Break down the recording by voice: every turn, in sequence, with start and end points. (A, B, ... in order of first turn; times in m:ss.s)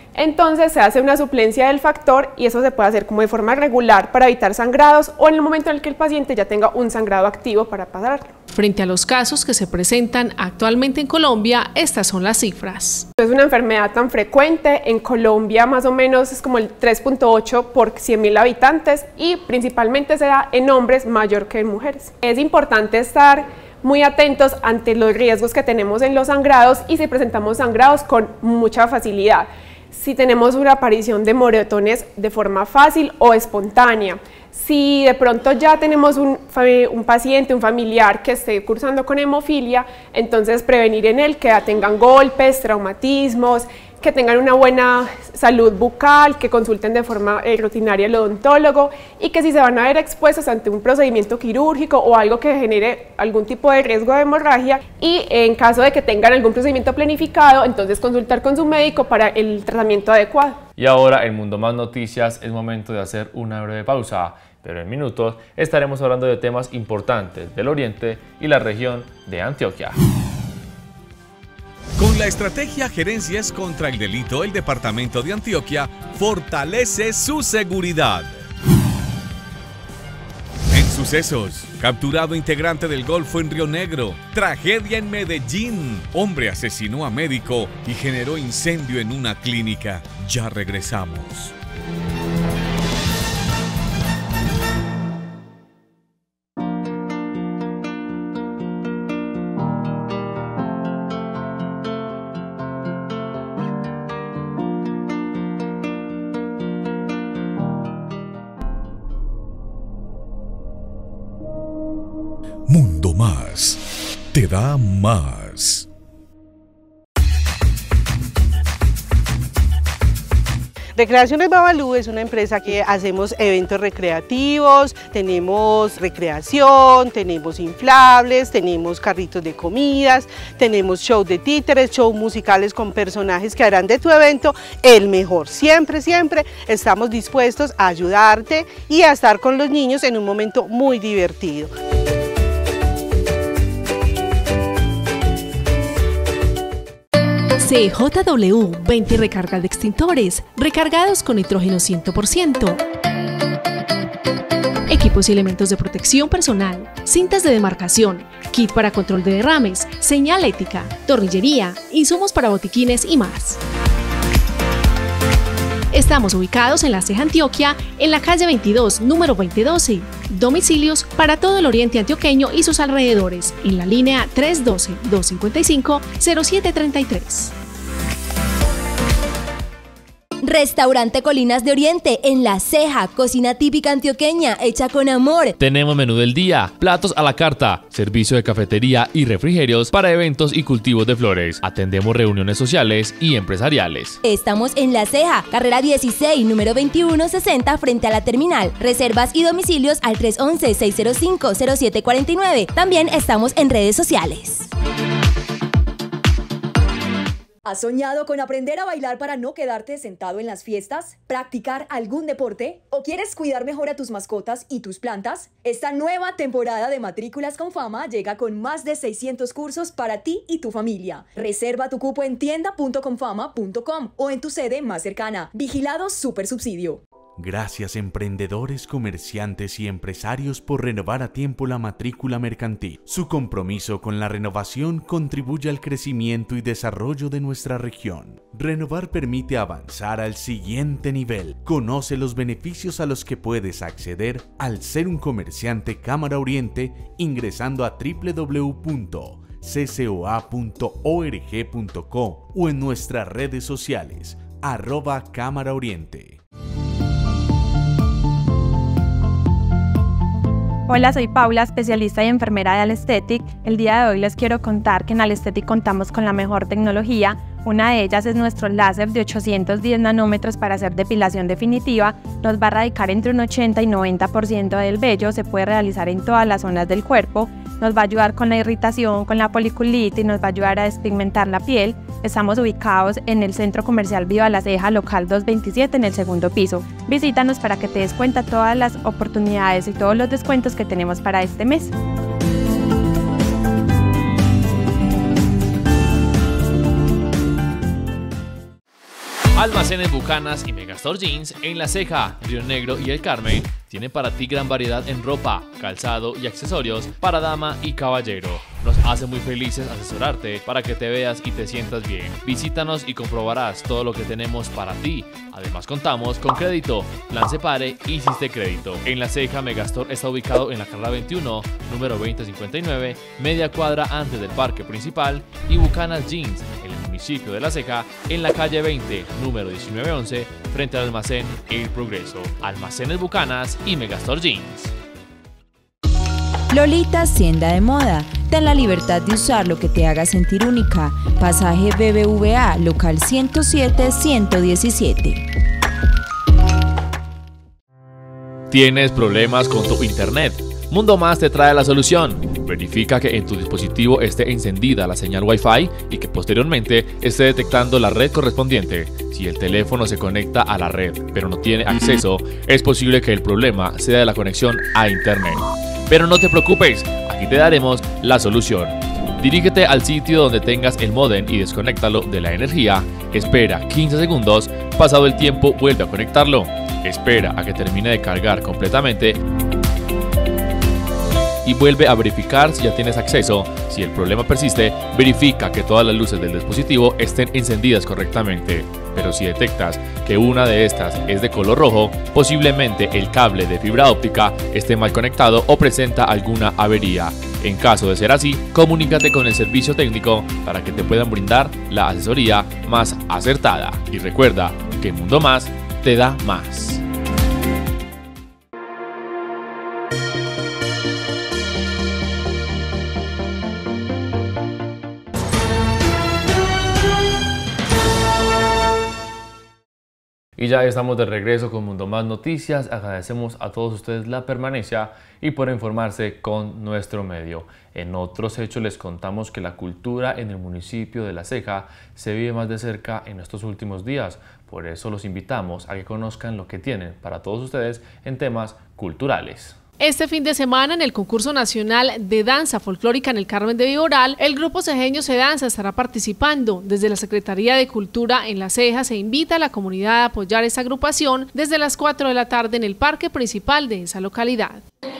0:00.1-0:08.3 A
0:08.5-0:13.0 B
0:13.2-1:00.6 A
1:00.8-1:10.0 C
1:12.0-1:18.3 D
1:20.7-1:31.5 D
1:52.7-1:53.8 D
1:54.3-1:55.8 D
2:01.0-2:21.7 E
2:27.6-2:32.8 B
2:34.9-2:43.6 B
2:45.9-2:57.5 B
3:00.4-3:05.6 F
3:05.6-3:14.2 G
3:14.2-3:24.7 F
3:27.6-3:47.0 H
3:47.4-4:16.4 I
4:20.9-4:51.9 J
4:59.5-5:34.9 G
5:36.7-5:45.4 K
5:48.7-6:19.4 G
6:21.6-6:47.0 G
7:00.6-7:19.8 C
7:20.0-7:34.8 B